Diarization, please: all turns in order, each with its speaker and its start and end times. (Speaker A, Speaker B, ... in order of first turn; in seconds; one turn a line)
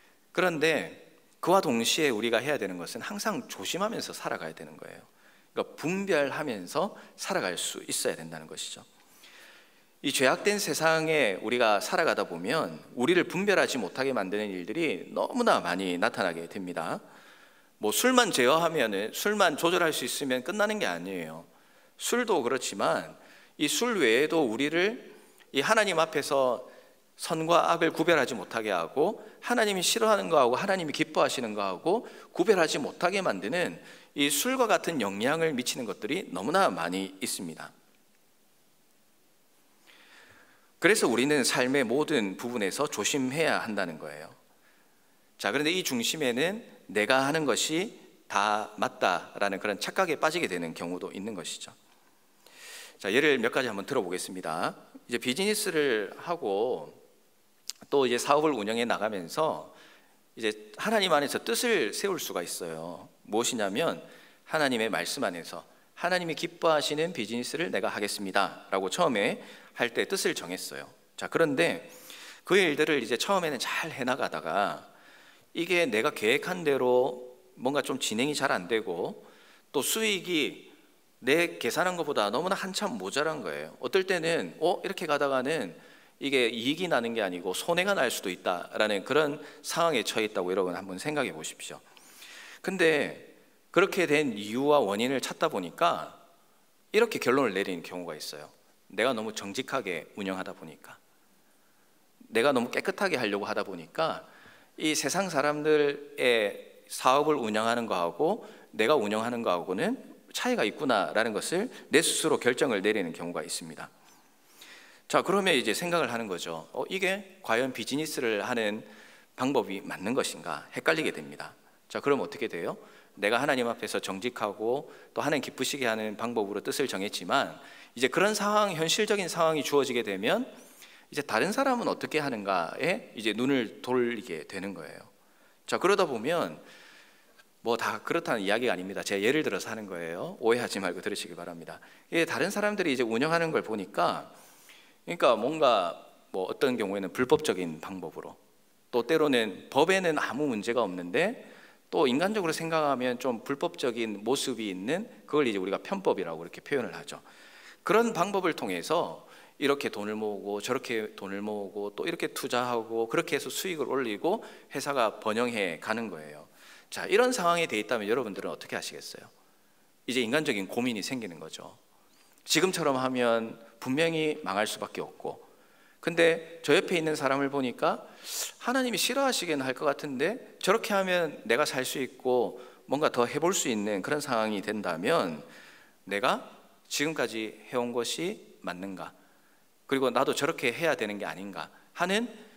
Speaker A: 0.3-8.8
Speaker A: 10.0-17.0
Speaker A: 17.8-21.5
Speaker A: 22.0-37.7
Speaker A: 40.8-44.4
Speaker A: 45.4-51.7
Speaker A: 53.0-57.0
Speaker A: 57.9-59.7
Speaker A: 60.4-74.9
Speaker A: 75.5-91.8
Speaker A: 92.6-96.2
Speaker A: 96.9-101.0
Speaker A: 102.3-104.3
Speaker A: 104.8-113.9
Speaker A: 115.1-130.6
Speaker A: 131.1-135.1
Speaker A: 135.7-136.6
Speaker A: 137.6-144.3
Speaker A: 145.1-148.4
Speaker A: 148.9-157.2
Speaker A: 157.8-169.3
Speaker A: 170.1-171.8
Speaker A: 172.4-175.4
Speaker A: 176.0-185.5
Speaker A: 186.1-189.1
Speaker A: 189.9-192.4